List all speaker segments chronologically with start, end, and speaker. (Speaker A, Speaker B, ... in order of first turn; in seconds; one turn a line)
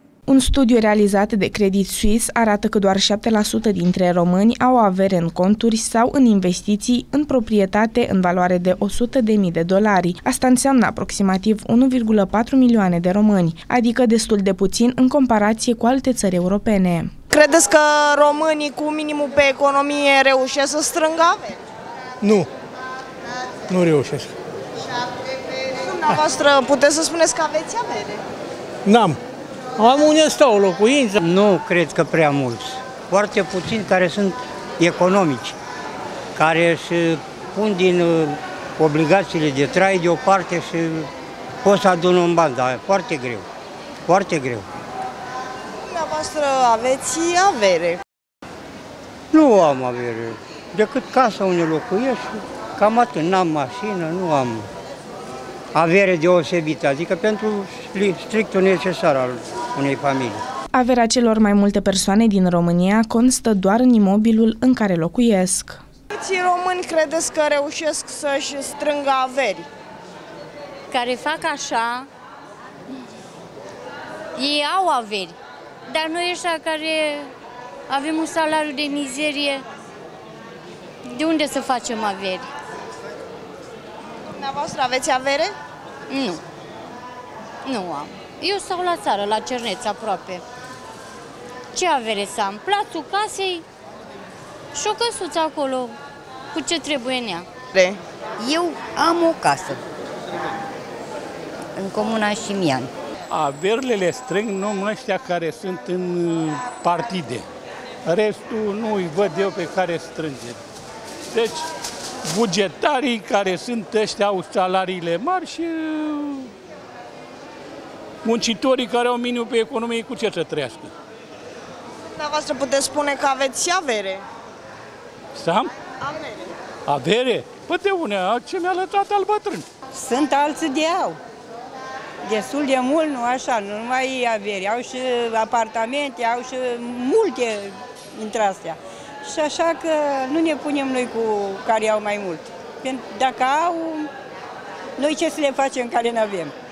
Speaker A: 0.3-17.1
Speaker B: 17.3-21.6
Speaker C: 22.2-22.5
Speaker C: 23.7-24.3
Speaker B: 25.5-28.2
Speaker C: 28.9-29.2
Speaker C: 29.8-31.2
Speaker D: 31.2-35.5
Speaker D: 36.3-41.1
Speaker D: 41.6-43.5
Speaker D: 44.1-44.7
Speaker B: 45.8-48.0
Speaker D: 49.3-54.7
Speaker D: 55.7-60.4
Speaker A: 60.7-65.8
Speaker B: 66.2-69.7
Speaker E: 70.9-72.0
Speaker E: 74.3-75.3
Speaker E: 75.9-77.3
Speaker E: 77.9-79.6
Speaker E: 81.1-82.5
Speaker B: 84.2-85.5
Speaker E: 86.1-86.4
Speaker E: 87.6-90.4
Speaker E: 91.7-93.6
Speaker E: 94.7-96.0
Speaker E: 96.5-97.5
Speaker B: 97.7-98.0
Speaker F: 98.4-99.8
Speaker F: 101.8-102.9
Speaker G: 103.3-107.4
Speaker G: 108.0-110.6
Speaker G: 111.3-111.6
Speaker G: 112.2-116.5
Speaker G: 118.2-120.9
Speaker B: 122.1-124.2
Speaker G: 125.3-125.7
Speaker B: 126.0-126.4
Speaker G: 126.9-129.6
Speaker H: 129.9-131.2
Speaker H: 132.2-144.1
Speaker H: 145.0-146.5